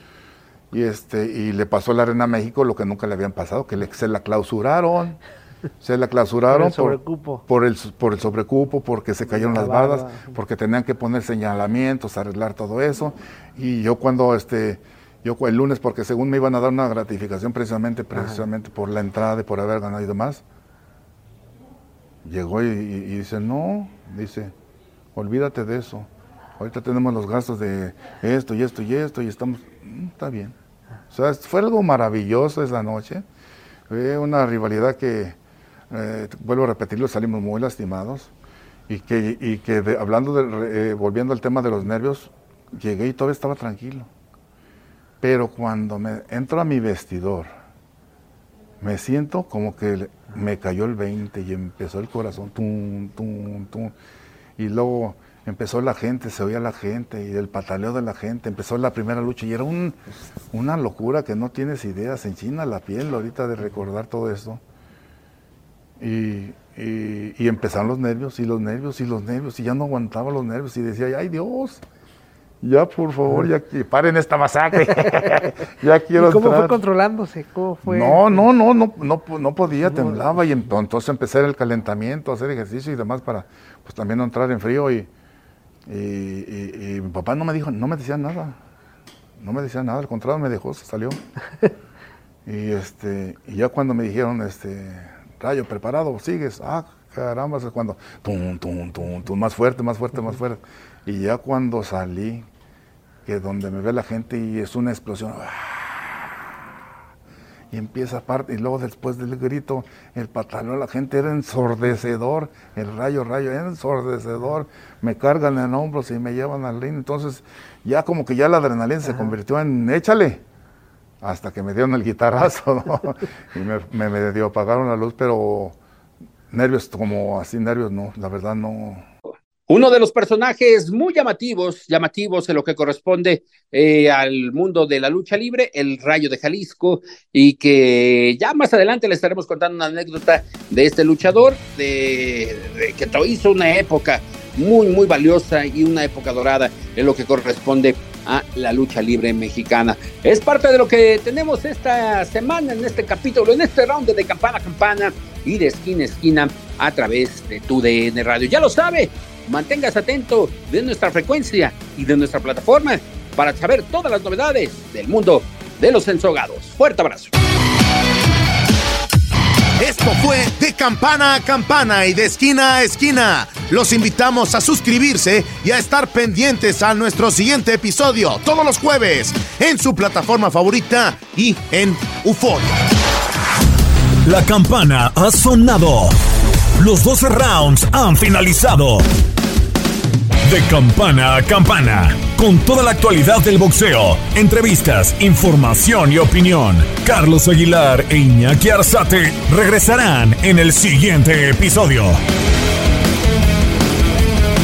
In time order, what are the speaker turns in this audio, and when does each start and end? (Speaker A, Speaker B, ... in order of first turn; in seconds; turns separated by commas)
Speaker A: 0.7-5.2, Speaker A: 5.8-20.4, Speaker B: 6.5-7.4, Speaker B: 9.2-10.4, Speaker B: 18.1-18.4, Speaker A: 22.2-24.5, Speaker A: 25.1-30.6, Speaker A: 31.1-33.2, Speaker A: 33.9-35.4, Speaker A: 35.9-38.3, Speaker A: 38.9-44.1, Speaker A: 45.2-47.5, Speaker A: 48.8-53.9, Speaker A: 54.6-60.0, Speaker A: 60.5-64.6, Speaker A: 66.0-71.8, Speaker A: 72.6-76.8, Speaker B: 76.2-78.5, Speaker A: 77.8-85.1, Speaker B: 79.8-80.3, Speaker A: 85.9-88.6, Speaker A: 89.4-91.2, Speaker A: 92.5-102.5, Speaker A: 103.3-106.4, Speaker A: 107.7-120.4, Speaker A: 121.2-125.8, Speaker A: 126.5-129.1, Speaker C: 129.7-167.3, Speaker D: 169.8-182.7, Speaker E: 184.2-186.2, Speaker E: 186.8-189.1, Speaker E: 190.5-202.2